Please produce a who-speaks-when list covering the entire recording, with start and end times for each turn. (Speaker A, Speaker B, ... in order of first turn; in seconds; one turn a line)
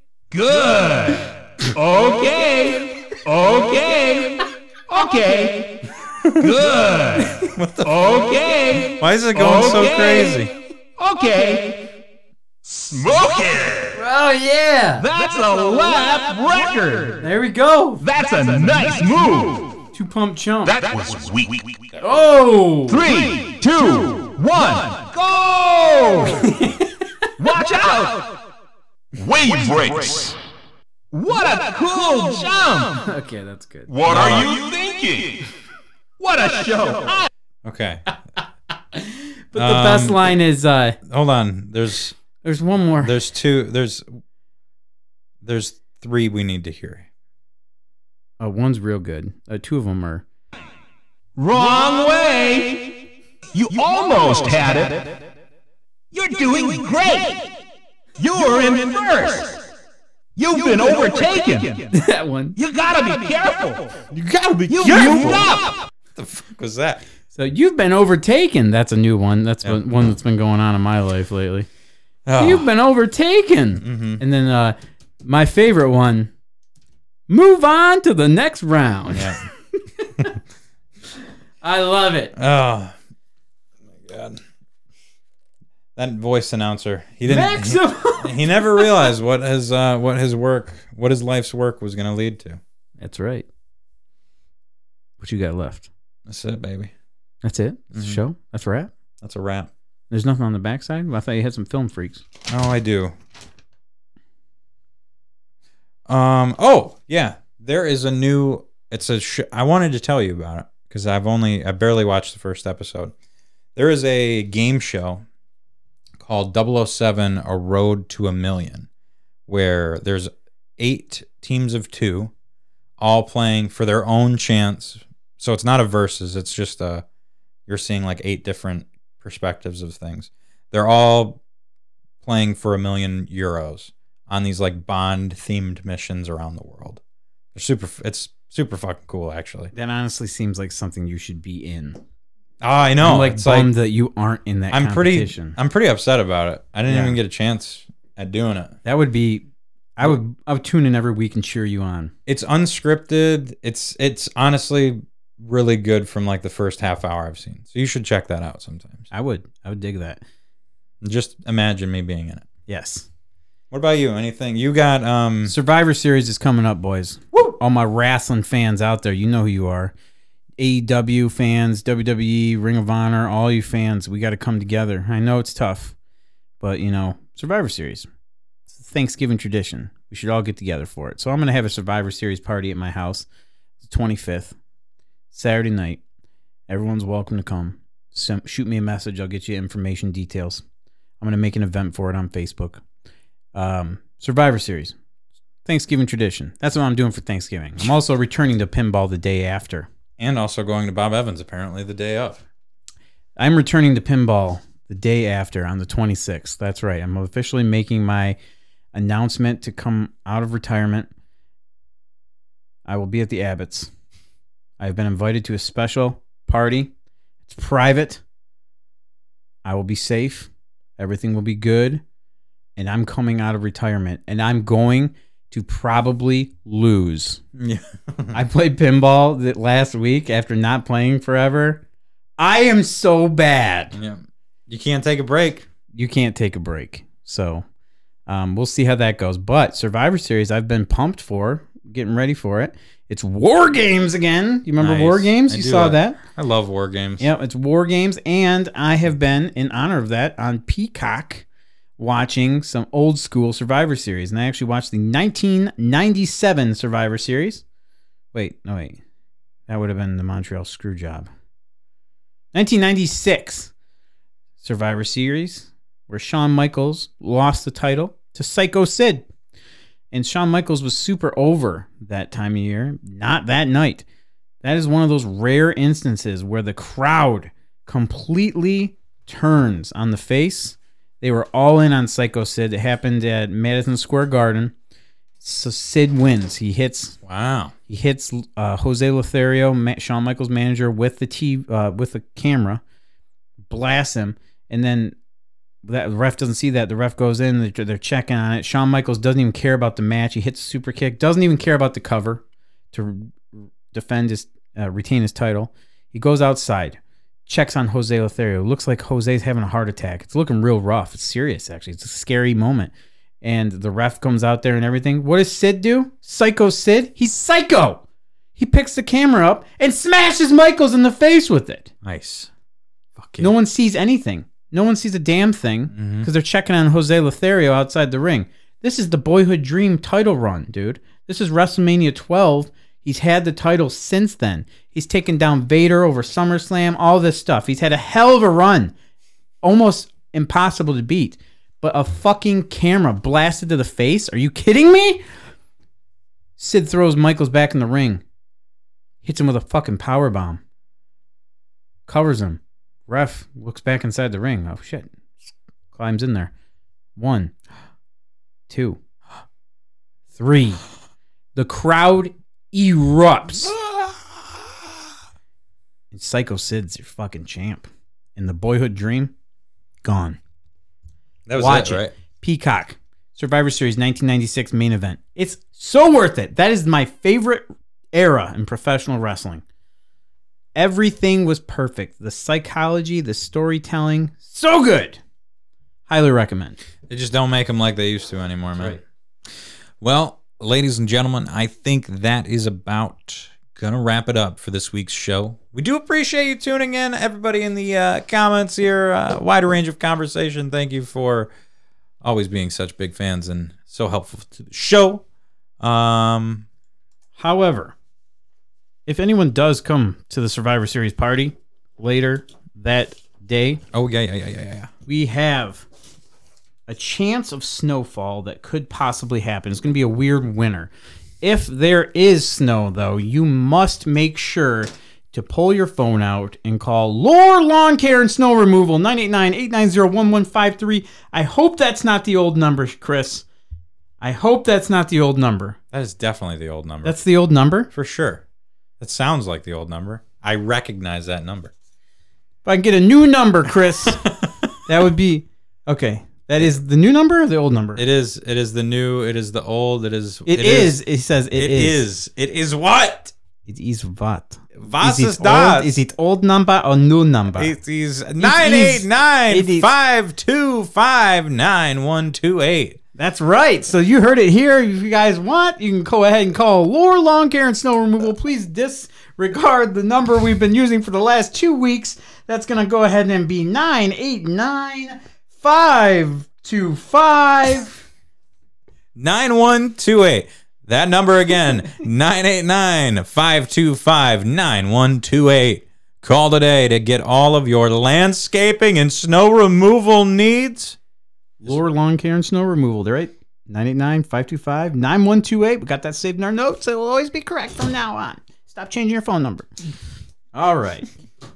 Speaker A: 0.3-5.8
Speaker B: 6.2-6.5
Speaker A: 6.3-10.4
Speaker B: 7.4-7.9
Speaker B: 9.0-10.5
Speaker A: 11.0-11.8
Speaker C: 12.7-14.0
Speaker D: 13.9-15.1
Speaker A: 15.0-17.3
Speaker D: 17.2-18.0
Speaker A: 18.0-19.7
Speaker D: 19.9-20.8
Speaker C: 20.6-21.9
Speaker D: 22.0-23.1
Speaker A: 22.9-26.5
Speaker D: 26.4-26.9
Speaker A: 27.4-28.3
Speaker C: 29.2-30.4
Speaker A: 31.1-33.0
Speaker D: 33.0-34.0
Speaker C: 33.9-35.5
Speaker B: 34.1-34.5
Speaker A: 34.2-34.5
Speaker A: 36.2-37.3
Speaker B: 37.6-38.0
Speaker D: 38.9-41.0
Speaker B: 39.5-40.3
Speaker B: 41.1-42.2
Speaker D: 42.4-43.1
Speaker B: 43.0-44.2
Speaker B: 45.4-47.1
Speaker D: 48.4-50.2
Speaker A: 51.4-53.0
Speaker A: 53.5-55.2
Speaker A: 56.1-57.5
Speaker A: 58.2-59.6
Speaker A: 60.4-61.9
Speaker D: 61.9-62.6
Speaker A: 62.6-64.1
Speaker D: 64.1-65.4
Speaker A: 64.7-65.9
Speaker B: 64.9-65.3
Speaker B: 66.2-67.0
Speaker D: 67.3-71.7
Speaker B: 72.3-72.7
Speaker D: 72.4-76.3
Speaker B: 73.8-74.2
Speaker D: 77.3-79.5
Speaker B: 79.1-79.4
Speaker D: 80.0-80.4
Speaker D: 81.6-82.3
Speaker B: 82.4-83.0
Speaker B: 84.0-84.4
Speaker B: 86.0-92.6
Speaker D: 87.2-89.1
Speaker D: 93.0-93.5
Speaker D: 95.2-95.9
Speaker B: 96.3-96.9
Speaker D: 97.4-98.9
Speaker B: 97.9-98.2
Speaker B: 99.2-99.7
Speaker D: 100.1-102.2
Speaker B: 102.5-103.1
Speaker B: 106.1-113.1
Speaker B: 113.8-115.2
Speaker B: 116.2-118.9
Speaker B: 119.5-122.3
Speaker B: 123.0-127.0
Speaker B: 127.7-131.4
Speaker B: 132.2-137.0
Speaker B: 137.6-139.7
Speaker D: 139.7-142.0
Speaker B: 142.6-143.7
Speaker D: 143.0-145.6
Speaker B: 144.7-148.8
Speaker D: 146.9-147.2
Speaker D: 148.8-149.5
Speaker D: 150.0-152.1
Speaker B: 152.3-159.1
Speaker D: 159.1-160.2
Speaker B: 161.0-162.4
Speaker D: 162.7-163.1
Speaker B: 163.7-165.5
Speaker D: 165.5-169.9
Speaker D: 170.6-175.9
Speaker D: 176.6-178.1
Speaker D: 178.7-183.3
Speaker D: 183.8-184.6
Speaker D: 185.3-186.0
Speaker D: 186.7-190.6
Speaker D: 191.2-192.8
Speaker D: 193.5-194.9
Speaker D: 195.7-199.9
Speaker B: 200.2-202.4
Speaker D: 203.4-208.4
Speaker D: 208.9-211.1
Speaker D: 212.8-213.9
Speaker D: 214.8-216.9
Speaker D: 217.5-218.2
Speaker D: 219.7-222.0
Speaker D: 222.8-227.4
Speaker B: 227.6-228.4
Speaker D: 228.3-231.8
Speaker D: 232.4-234.0
Speaker B: 233.9-235.7
Speaker D: 235.9-237.7
Speaker D: 238.3-246.2
Speaker B: 244.8-247.3
Speaker D: 247.2-251.5
Speaker D: 252.0-257.6
Speaker D: 258.3-259.0
Speaker D: 259.7-261.3
Speaker D: 262.5-263.7
Speaker D: 264.6-269.3
Speaker D: 270.1-274.1
Speaker D: 274.6-284.7
Speaker D: 285.4-287.2
Speaker B: 287.2-287.8
Speaker D: 287.9-292.8
Speaker D: 293.7-295.2
Speaker D: 295.8-318.0
Speaker D: 318.6-321.9
Speaker B: 322.0-322.5
Speaker B: 323.2-323.5
Speaker D: 323.4-338.9
Speaker B: 325.9-326.3
Speaker D: 339.6-345.2
Speaker D: 346.6-348.2
Speaker D: 349.2-350.6
Speaker D: 352.1-355.1
Speaker D: 355.9-356.5
Speaker D: 357.2-357.5
Speaker D: 358.7-359.0
Speaker D: 360.4-360.8
Speaker D: 361.6-363.7
Speaker B: 363.7-364.3
Speaker D: 366.1-369.3
Speaker D: 370.0-370.4
Speaker B: 371.5-372.1
Speaker D: 371.6-379.6
Speaker D: 380.8-385.2
Speaker D: 386.1-386.8
Speaker B: 387.1-389.0
Speaker B: 390.0-401.5
Speaker B: 402.2-405.2
Speaker B: 405.8-406.7
Speaker D: 407.4-407.9
Speaker D: 409.1-413.8
Speaker B: 413.9-414.9
Speaker D: 415.1-415.9
Speaker D: 416.9-420.9
Speaker D: 421.4-433.4
Speaker D: 434.2-435.8
Speaker B: 435.9-437.2
Speaker D: 437.0-437.9
Speaker B: 437.9-438.4
Speaker B: 439.0-441.7
Speaker D: 442.6-444.3
Speaker B: 444.2-444.7
Speaker D: 444.9-448.0
Speaker B: 448.0-451.0
Speaker D: 450.5-452.0
Speaker B: 451.6-453.3
Speaker D: 453.7-457.8
Speaker B: 454.8-456.0
Speaker B: 457.6-463.0
Speaker D: 458.4-459.9
Speaker D: 463.2-478.0
Speaker B: 479.2-491.0
Speaker D: 491.6-499.7
Speaker D: 500.5-501.1